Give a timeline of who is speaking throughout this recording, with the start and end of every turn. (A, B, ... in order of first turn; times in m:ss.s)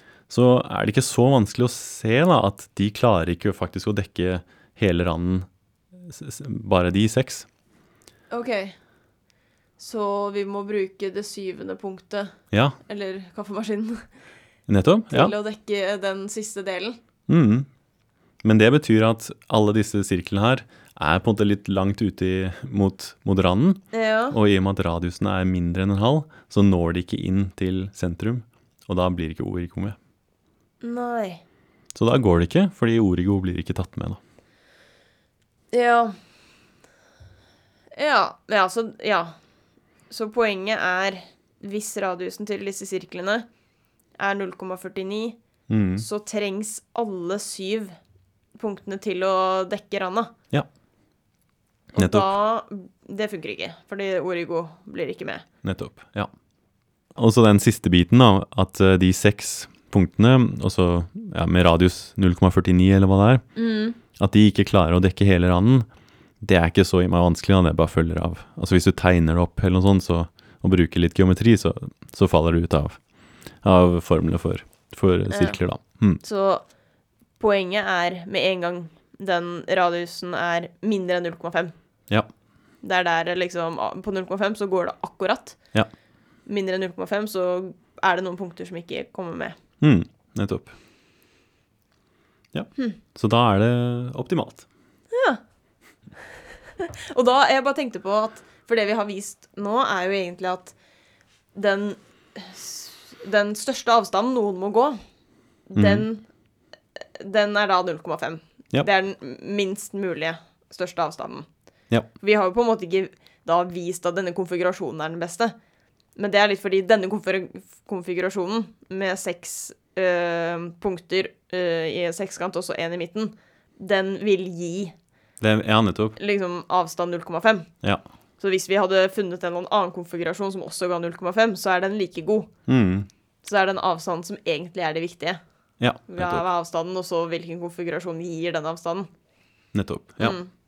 0:00.3-0:05.5 A
0:06.0-0:07.5 A
0:08.3-0:08.8 B
0:09.8-0:12.4 B
0:12.5-0:12.8 A
0:12.9-0:14.0 B
0:14.7-0:15.3 A
0:15.1-0:17.0 B
0:17.3-0:17.7 A
0:18.4-0:30.0 A
0:23.9-0:24.4 B
0:30.8-0:31.4 B
0:31.9-0:34.2 A
0:35.7-0:36.2 B
0:38.0-0:39.4 B
0:40.1-0:43.5 B
0:44.2-0:45.4 B
0:45.7-0:46.1 A
0:46.0-0:47.9 B
0:48.6-0:50.3 B
0:52.0-0:52.3 A
0:52.0-0:55.4 B
0:55.6-0:56.3 A
0:57.2-1:03.4 A
1:03.6-1:04.0 B
1:04.2-1:05.9 A
1:06.4-1:13.0 A
1:13.6-1:16.2 A
1:15.3-1:15.6 B
1:16.2-1:16.6 B
1:17.4-1:21.7 B
1:22.8-1:25.6 B
1:26.5-1:29.6 B
1:29.8-1:30.7 A
1:32.5-1:34.7 A
1:35.1-1:35.4 B
1:36.8-1:40.8 B
1:41.6-1:45.0 B
1:45.7-1:46.3 B
1:45.8-1:46.1 A
1:47.2-1:51.5 B
1:52.2-1:55.6 B
1:56.2-2:04.9 B
2:05.4-2:06.2 A
2:06.2-2:07.7 B
2:08.4-2:12.5 B
2:12.7-2:13.1 A
2:13.4-2:15.4 B
2:15.8-2:16.4 A
2:16.1-2:19.1 B
2:19.7-2:20.4 A
2:20.2-2:20.5 B